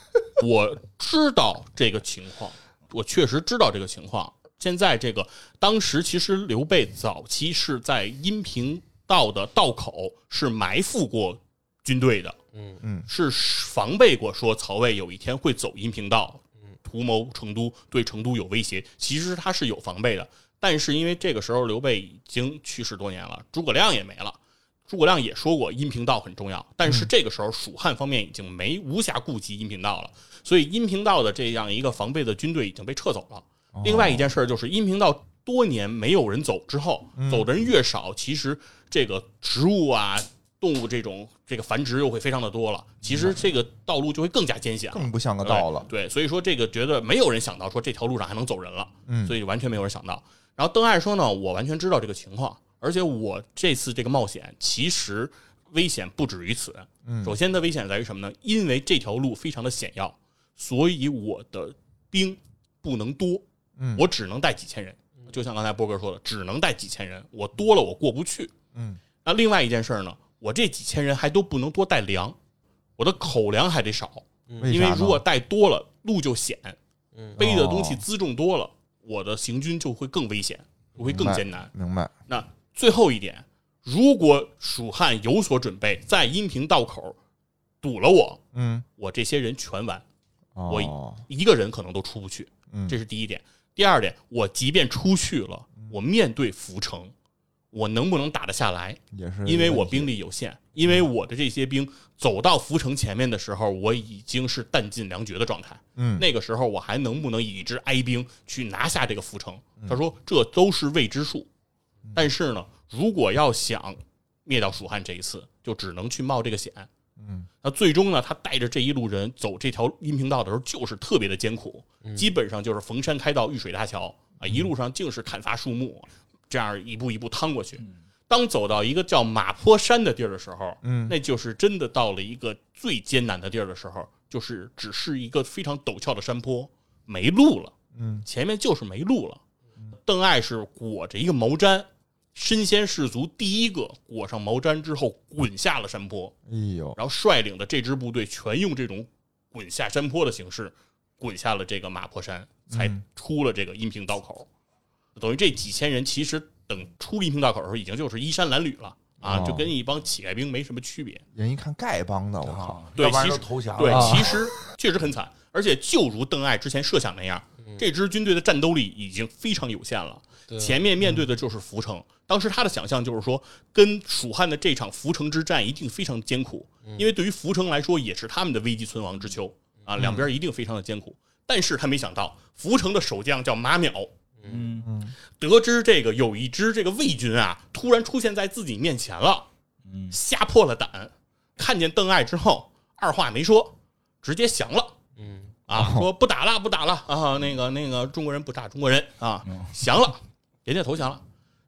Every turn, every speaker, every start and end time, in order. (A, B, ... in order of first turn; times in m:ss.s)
0:00.4-0:12.4 A
0:12.5-0:12.8 B
0:12.8-0:13.1 C
0:13.1-1:03.4 A
0:33.7-0:34.2 C
0:37.2-0:37.5 C
0:44.9-0:45.9 C
0:49.1-0:49.4 C
0:57.0-0:57.4 C
1:03.8-1:04.1 C
1:03.9-1:08.5 A
1:08.7-1:09.0 C
1:09.2-1:12.4 A
1:13.0-1:16.8 A
1:14.5-1:14.7 B
1:14.6-1:15.2 C
1:17.4-1:18.0 C
1:17.4-1:21.7 A
1:21.1-1:22.1 C
1:22.3-1:27.2 A
1:27.8-1:28.4 A
1:28.5-1:28.8 C
1:29.0-1:30.0 A
1:30.6-1:31.2 C
1:30.7-1:37.1 A
1:32.7-1:33.0 C
1:37.7-1:51.5 A
1:39.1-1:40.1 C
1:46.0-1:46.2 C
1:52.1-1:56.9 A
1:57.2-1:57.5 C
1:57.6-2:17.7 A
2:02.0-2:02.3 B
2:04.4-2:04.7 C
2:10.8-2:11.2 C
2:17.9-2:18.2 C
2:18.2-2:19.4 A
2:20.0-2:26.3 A
2:26.5-2:27.0 C
2:27.0-2:34.5 A
2:32.7-2:33.0 C
2:35.2-2:41.2 A
2:39.2-2:39.7 C
2:41.3-2:42.9 C
2:42.4-2:44.5 D
2:43.0-3:04.1 A
2:43.9-2:44.3 B
2:50.5-2:50.8 B
2:51.0-2:51.3 C
2:56.8-2:57.1 B
3:00.0-3:00.3 C
3:04.4-3:04.7 B
3:04.5-3:04.9 D
3:04.8-3:05.1 C
3:05.3-3:09.5 A
3:09.8-3:10.2 D
3:10.1-3:15.0 A
3:15.2-3:15.5 B
3:15.7-3:21.2 A
3:15.7-3:16.1 C